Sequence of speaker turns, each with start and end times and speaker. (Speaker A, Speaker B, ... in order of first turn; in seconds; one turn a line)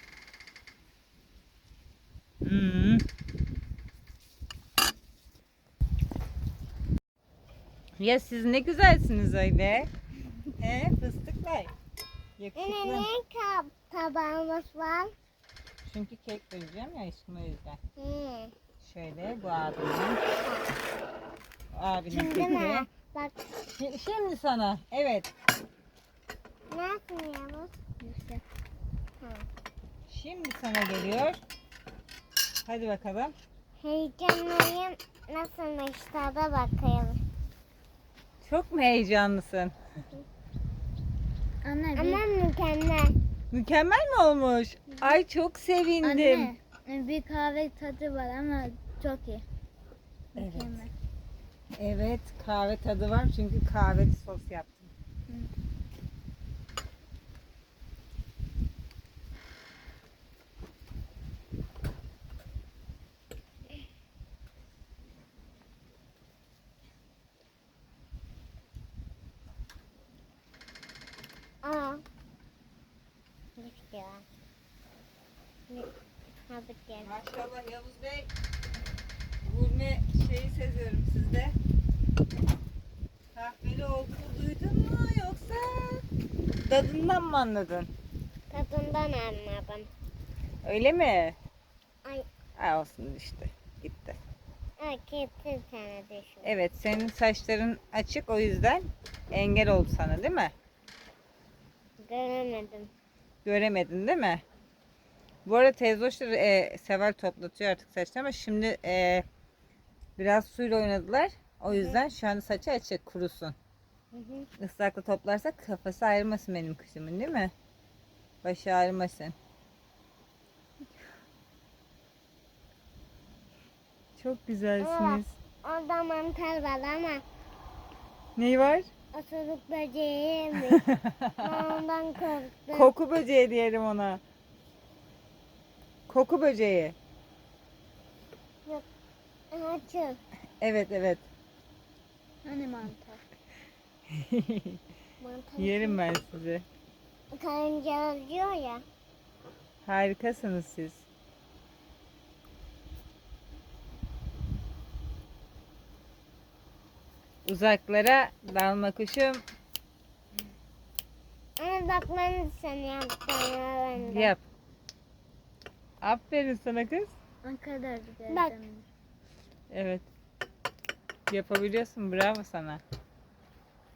Speaker A: 2.4-3.0
Speaker A: 8.0-9.9
Speaker A: 10.6-11.7
Speaker A: 12.4-13.1
Speaker B: 12.6-15.1
Speaker A: 15.8-17.8
Speaker B: 18.0-18.5
Speaker A: 18.8-20.2
Speaker A: 21.7-22.9
Speaker B: 22.1-23.3
Speaker A: 23.8-25.3
Speaker B: 26.7-27.7
Speaker C: 28.0-28.4
Speaker B: 29.2-29.4
Speaker A: 30.1-31.4
Speaker A: 32.6-33.3
Speaker B: 33.8-37.2
Speaker A: 38.4-39.7
Speaker C: 41.6-42.2
Speaker B: 42.0-43.1
Speaker A: 43.5-46.5
Speaker C: 46.0-49.4
Speaker C: 50.3-50.9
Speaker A: 50.4-50.8
Speaker A: 51.8-54.9
Speaker B: 71.6-72.0
Speaker B: 73.6-74.2
Speaker B: 76.5-77.1
Speaker A: 77.0-78.3
Speaker A: 79.4-81.5
Speaker A: 83.3-86.0
Speaker A: 86.7-87.9
Speaker B: 88.5-89.9
Speaker A: 90.6-91.3
Speaker A: 92.6-94.2
Speaker B: 94.8-96.5
Speaker A: 96.4-100.5
Speaker B: 102.0-102.9
Speaker A: 103.4-104.4
Speaker A: 105.5-109.2
Speaker A: 110.2-113.5
Speaker B: 114.1-114.5
Speaker A: 114.6-117.5
Speaker A: 118.4-119.3
Speaker A: 124.2-125.3
Speaker B: 124.8-127.2
Speaker A: 128.3-128.9
Speaker B: 129.1-130.8
Speaker A: 130.7-131.7
Speaker B: 131.4-132.9
Speaker A: 132.7-134.2
Speaker A: 136.1-136.9
Speaker B: 139.5-140.2
Speaker A: 140.6-141.2
Speaker C: 142.4-143.2
Speaker A: 144.1-144.8
Speaker B: 145.2-146.0
Speaker A: 145.6-146.6
Speaker B: 147.3-148.8
Speaker A: 149.8-151.1
Speaker A: 157.4-159.4
Speaker B: 161.6-164.3
Speaker A: 164.0-164.4
Speaker A: 166.0-167.1
Speaker C: 167.4-168.8
Speaker B: 168.3-168.6
Speaker A: 169.7-170.1
Speaker A: 171.3-172.8